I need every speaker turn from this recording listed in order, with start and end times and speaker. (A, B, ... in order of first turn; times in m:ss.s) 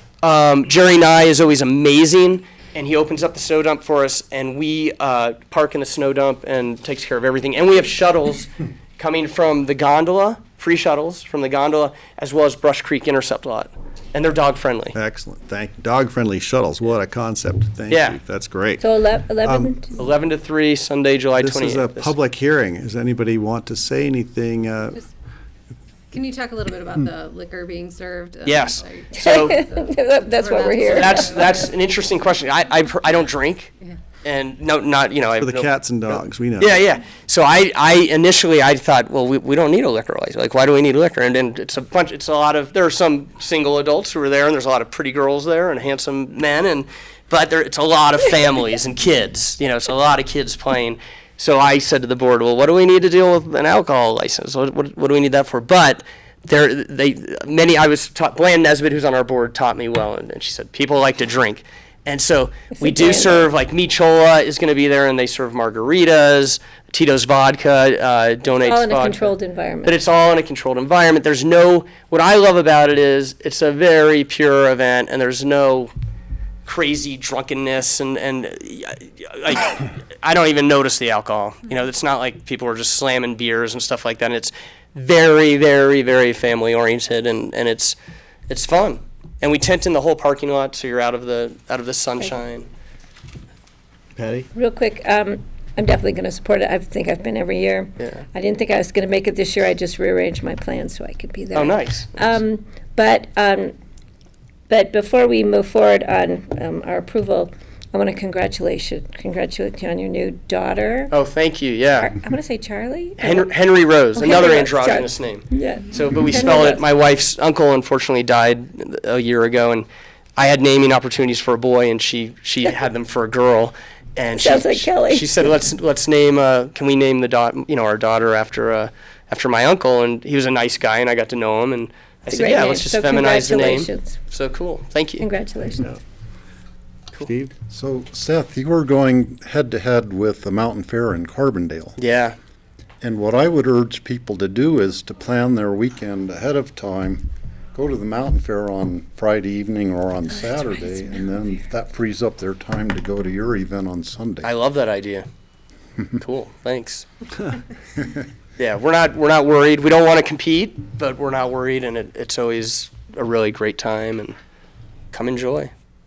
0:00.2-0:15.0 A
0:15.0-0:18.9 B
0:17.9-0:18.2 A
0:18.8-0:20.0 C
0:19.4-0:19.8 B
0:20.0-0:22.1 A
0:21.4-0:25.0 B
0:26.1-0:31.7 D
0:28.4-0:29.6 A
0:29.2-0:31.5 C
0:30.9-0:33.7 A
0:34.2-1:09.3 A
0:35.4-0:36.8 B
1:02.7-1:03.5 C
1:08.6-1:09.9 C
1:09.8-1:15.9 A
1:16.7-1:28.0 A
1:28.5-1:32.7 A
1:34.2-1:34.5 B
1:34.5-1:43.8 C
1:38.0-1:38.2 A
1:41.5-1:42.4 A
1:44.7-1:51.1 C
1:51.1-1:52.1 A
1:52.0-1:53.5 C
1:53.2-2:15.3 A
1:54.1-1:56.8 C
2:04.3-2:05.5 C
2:12.3-2:14.2 C
2:15.2-2:15.9 C
2:17.2-2:17.5 B
2:17.7-2:22.0 E
2:22.0-2:22.4 A
2:23.0-2:34.5 E
2:34.4-2:35.3 A
2:36.2-2:37.1 A
2:38.6-2:44.4 A
2:45.1-2:45.7 A